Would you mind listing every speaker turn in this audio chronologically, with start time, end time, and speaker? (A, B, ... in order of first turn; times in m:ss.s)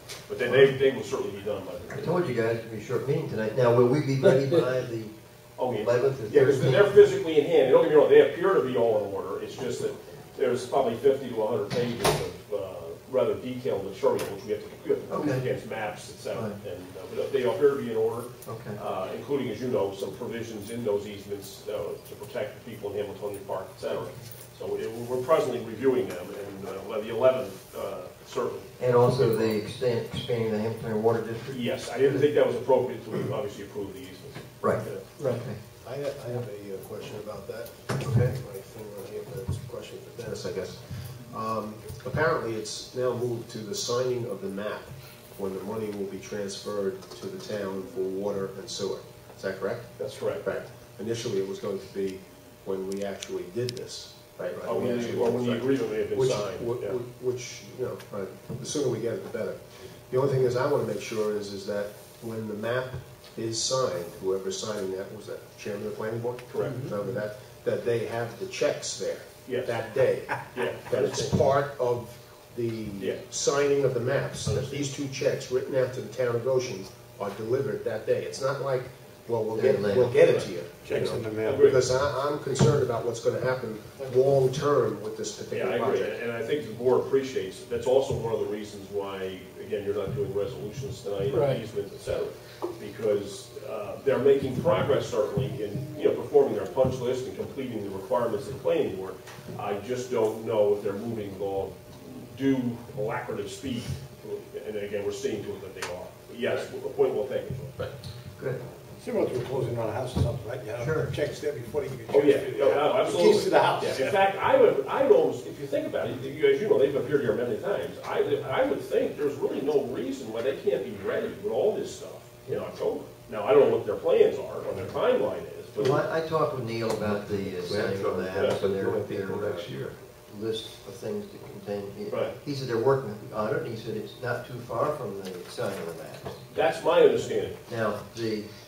0:00.3-0:02.1 A
0:00.4-0:00.8 B
0:01.9-0:07.0 B
0:05.6-0:29.6 A
0:15.1-0:15.5 B
0:16.3-0:16.6 B
0:18.4-0:18.8 B
0:28.8-0:31.6 B
0:31.5-0:35.1 A
0:34.6-0:35.6 B
0:35.7-1:26.2 C
0:38.0-0:38.4 B
0:50.0-0:50.5 A
0:54.6-0:57.0 A
1:06.5-1:06.9 A
1:09.4-1:09.9 A
1:10.5-1:11.5 A
1:14.4-1:14.8 A
1:19.5-1:20.2 B
1:20.8-1:21.7 D
1:21.4-1:21.8 A
1:25.5-1:47.8 A
1:49.0-1:54.2 D
1:50.8-1:51.1 B
1:52.1-2:06.1 A
2:05.8-2:09.7 B
2:07.0-2:10.0 E
2:08.3-2:08.6 A
2:10.3-2:16.4 B
2:12.1-2:12.4 A
2:16.5-2:17.6 A
2:17.7-2:18.5 B